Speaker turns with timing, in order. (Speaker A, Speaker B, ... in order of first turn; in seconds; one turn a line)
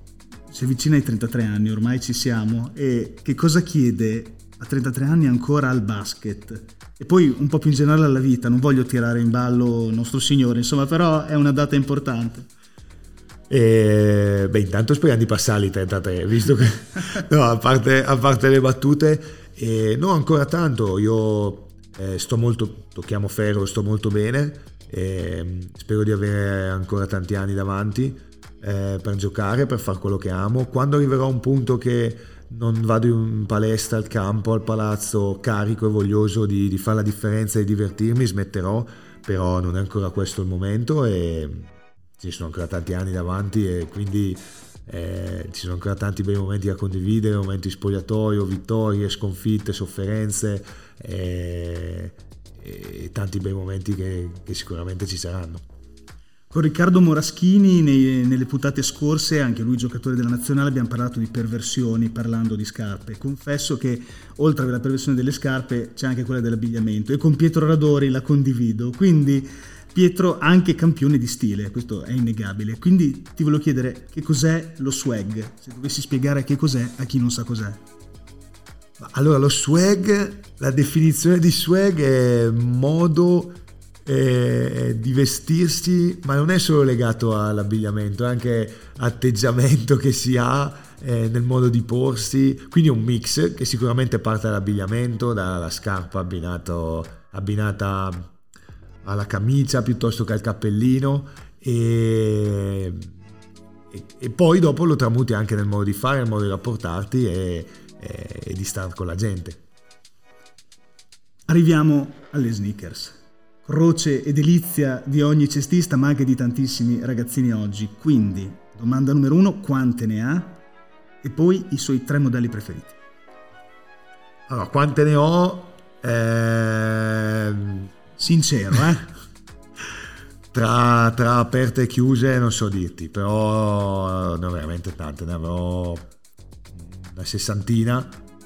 Speaker A: 0.5-12.5
Speaker B: 13.5-55.6
Speaker A: 56.5-77.8
Speaker B: 79.0-98.2
Speaker B: 99.0-103.1
Speaker B: 103.9-109.6
Speaker A: 111.5-120.6
Speaker A: 121.2-123.0
Speaker B: 124.5-127.9
Speaker A: 128.2-129.1
Speaker B: 130.5-136.1
Speaker B: 136.7-138.2